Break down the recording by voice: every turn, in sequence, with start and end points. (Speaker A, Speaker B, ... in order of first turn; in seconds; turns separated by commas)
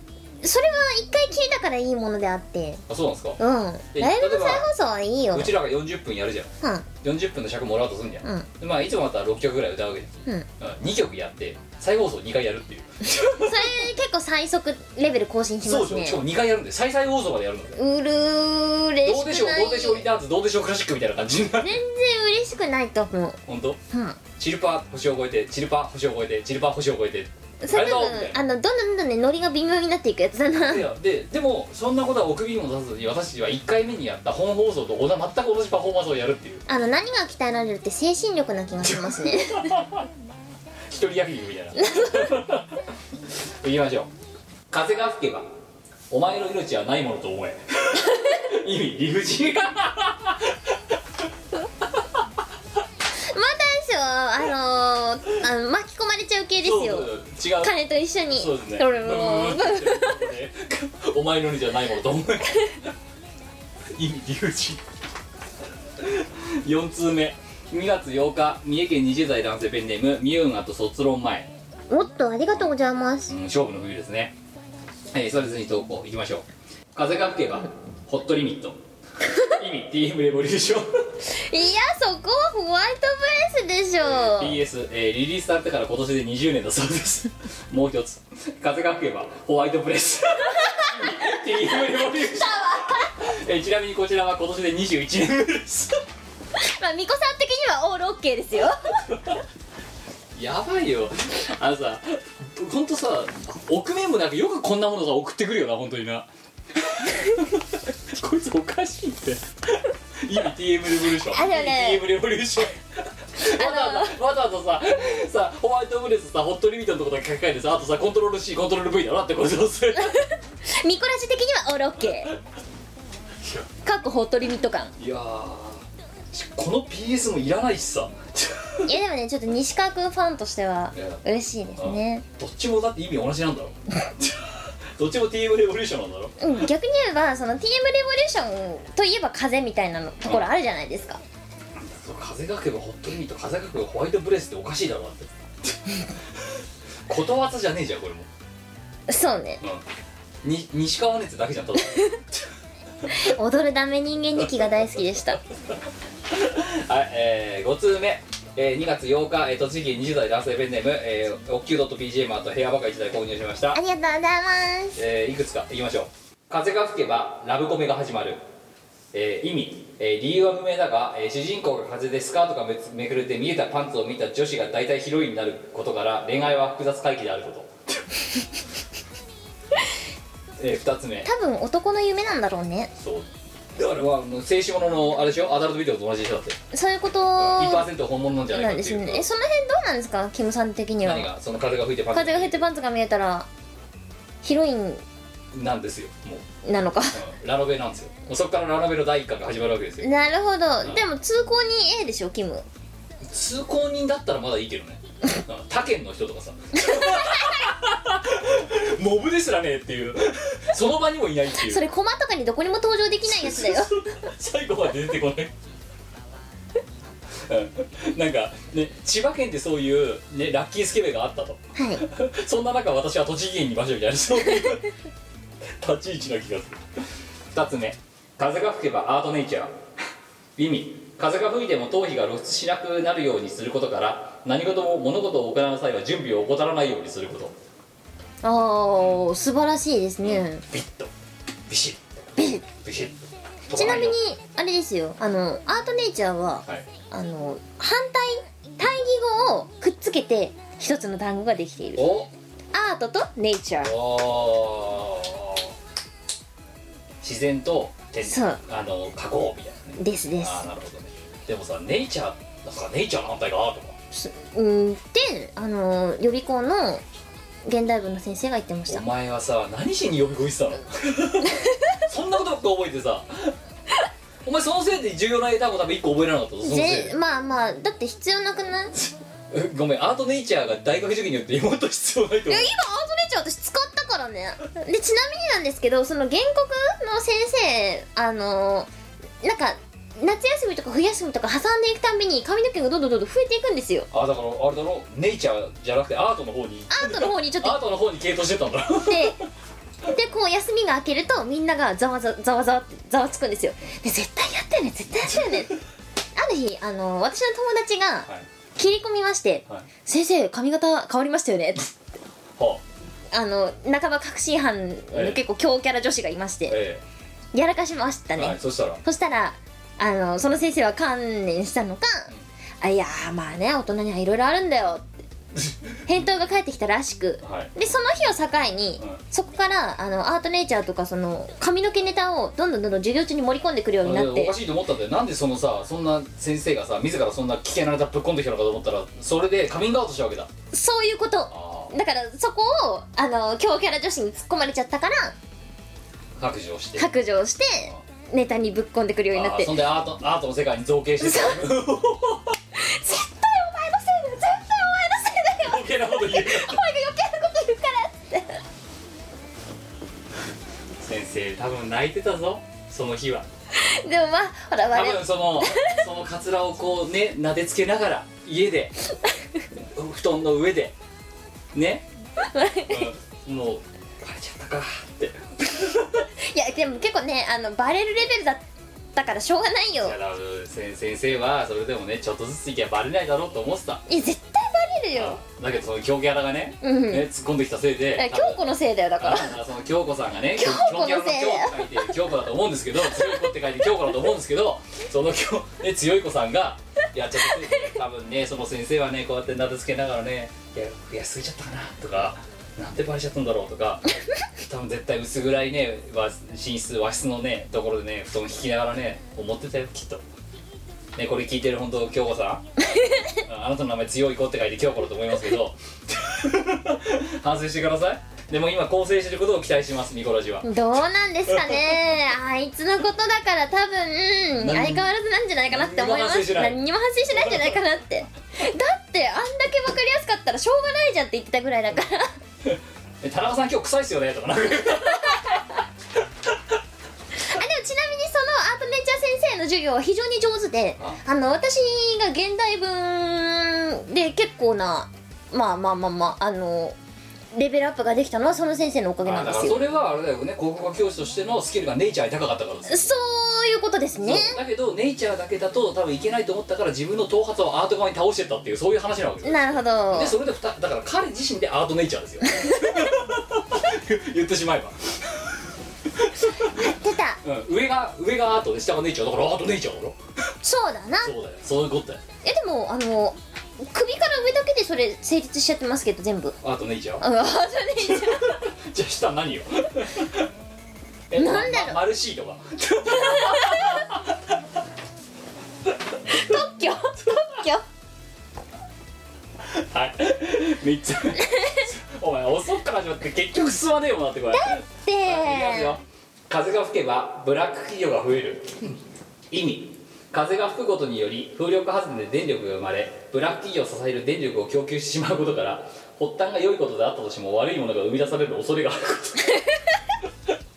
Speaker A: 0.4-2.8, Speaker B: 2.9-3.4, Speaker A: 3.4-5.5, Speaker B: 3.9-4.7, Speaker B: 5.3-13.7, Speaker A: 6.6-6.9, Speaker A: 13.2-16.2, Speaker B: 15.6-17.8, Speaker A: 17.8-20.1, Speaker B: 19.1-21.8, Speaker A: 21.6-23.4, Speaker B: 23.5-23.8, Speaker A: 23.9-24.2, Speaker B: 24.4-28.4, Speaker A: 27.6-30.9, Speaker B: 30.5-36.6, Speaker A: 36.7-39.8, Speaker B: 38.8-40.1, Speaker B: 40.9-42.8, Speaker A: 41.8-42.3, Speaker B: 43.6-44.1, Speaker B: 44.7-45.5, Speaker B: 46.1-51.0, Speaker A: 53.2-60.2, Speaker B: 56.6-57.8, Speaker B: 58.3-62.9, Speaker B: 64.0-64.8, Speaker B: 66.0-71.5, Speaker A: 71.9-73.3, Speaker B: 73.3-74.4, Speaker B: 75.1-78.8, Speaker B: 79.4-81.2, Speaker A: 81.3-84.6, Speaker B: 84.0-96.0, Speaker A: 90.6-91.2, Speaker A: 91.9-93.2, Speaker A: 96.6-99.1, Speaker B: 99.1-99.4, Speaker B: 100.3-120.2, Speaker A: 111.2-112.0, Speaker A: 113.4-114.2, Speaker A: 120.0-122.3, Speaker B: 123.4-123.7, Speaker A: 123.8-124.9, Speaker B: 125.0-128.9, Speaker A: 128.9-132.2, Speaker B: 130.9-131.2, Speaker B: 131.8-136.4, Speaker A: 136.4-141.2, Speaker B: 140.2-140.5, Speaker B: 141.8-145.7, Speaker B: 147.1-148.3, Speaker A: 149.1-149.6, Speaker B: 150.4-152.4, Speaker A: 153.1-155.4, Speaker B: 154.4-154.8, Speaker B: 156.3-163.8, Speaker A: 163.7-165.0, Speaker B: 164.9-168.4, Speaker B: 169.1-178.0, Speaker B: 180.6-181.3, Speaker A: 181.2-182.9, Speaker B: 182.9-186.6, Speaker A: 186.7-187.9, Speaker B: 187.4-189.3, Speaker A: 188.5-191.3, Speaker B: 191.0-192.7, Speaker A: 192.1-193.5, Speaker A: 194.4-195.0, Speaker B: 195.5-196.4, Speaker A: 196.6-197.2, Speaker B: 197.1-200.1, Speaker A: 200.0-202.7, Speaker B: 203.2-211.8, Speaker A: 206.8-207.5, Speaker A: 211.6-214.2, Speaker B: 213.2-215.5, Speaker B: 217.5-224.9, Speaker A: 221.8-222.1, Speaker B: 225.8-226.8, Speaker B: 227.5-229.8, Speaker B: 230.6-237.6, Speaker A: 238.4-240.6, Speaker B: 240.2-241.1, Speaker B: 241.7-244.2, Speaker A: 242.4-242.6, Speaker A: 243.8-252.1, Speaker B: 252.0-252.3, Speaker A: 252.7-253.9, Speaker B: 253.8-255.7, Speaker B: 257.2-264.0, Speaker A: 258.2-258.6, Speaker A: 260.0-260.6, Speaker A: 264.1-267.0, Speaker A: 267.6-269.1, Speaker B: 268.9-273.6, Speaker B: 274.4-277.1, Speaker A: 276.6-278.9, Speaker B: 279.0-282.7, Speaker A: 282.5-288.9, Speaker A: 289.4-294.1, Speaker B: 294.1-299.4, Speaker A: 296.9-297.8, Speaker A: 299.0-299.4, Speaker A: 300.1-305.8, Speaker B: 305.2-305.7, Speaker A: 306.4-311.9, Speaker B: 312.6-312.8, Speaker A: 313.3-316.8, Speaker B: 315.1-315.4, Speaker B: 316.7-317.0, Speaker A: 317.5-325.1, Speaker B: 318.4-319.0, Speaker B: 325.6-326.1, Speaker A: 326.1-334.5, Speaker B: 327.4-327.7, Speaker B: 334.0-340.5, Speaker A: 340.7-345.4, Speaker B: 341.5-341.9, Speaker B: 346.4-347.1, Speaker A: 347.0-349.8, Speaker B: 349.3-352.6, Speaker A: 351.2-351.7, Speaker A: 352.7-358.6, Speaker B: 355.6-356.8, Speaker B: 361.0-363.5, Speaker A: 363.7-366.0, Speaker B: 364.9-369.0, Speaker B: 369.9-371.0, Speaker B: 371.7-372.1, Speaker A: 372.4-373.1, Speaker B: 372.9-376.3, Speaker A: 376.4-378.6, Speaker A: 379.1-380.1, Speaker B: 380.0-384.0, Speaker A: 384.1-385.4, Speaker B: 385.1-388.6, Speaker A: 386.8-387.3, Speaker A: 388.2-389.6, Speaker B: 389.2-410.2, Speaker A: 390.6-392.1, Speaker A: 397.6-397.8, Speaker B: 411.2-412.6, Speaker A: 412.9-413.4, Speaker B: 413.4-420.7, Speaker A: 420.6-432.3, Speaker B: 421.5-422.0, Speaker B: 424.6-425.1, Speaker B: 425.7-426.8, Speaker B: 427.3-427.8, Speaker B: 432.6-435.8, Speaker A: 437.4-447.0, Speaker A: 447.5-449.9, Speaker B: 449.2-453.1, Speaker A: 452.9-454.6, Speaker B: 454.2-470.2, Speaker A: 459.4-460.4, Speaker A: 462.5-463.2, Speaker A: 466.6-467.4, Speaker A: 470.6-471.3, Speaker B: 471.2-472.2, Speaker A: 472.4-476.6, Speaker B: 476.6-477.3, Speaker A: 477.2-478.6, Speaker B: 478.0-480.5, Speaker B: 481.3-484.6, Speaker A: 481.4-482.0, Speaker A: 483.2-484.0, Speaker B: 486.2-486.6, Speaker A: 486.3-487.9, Speaker B: 489.6-499.0, Speaker A: 494.5-496.0, Speaker B: 499.5-509.6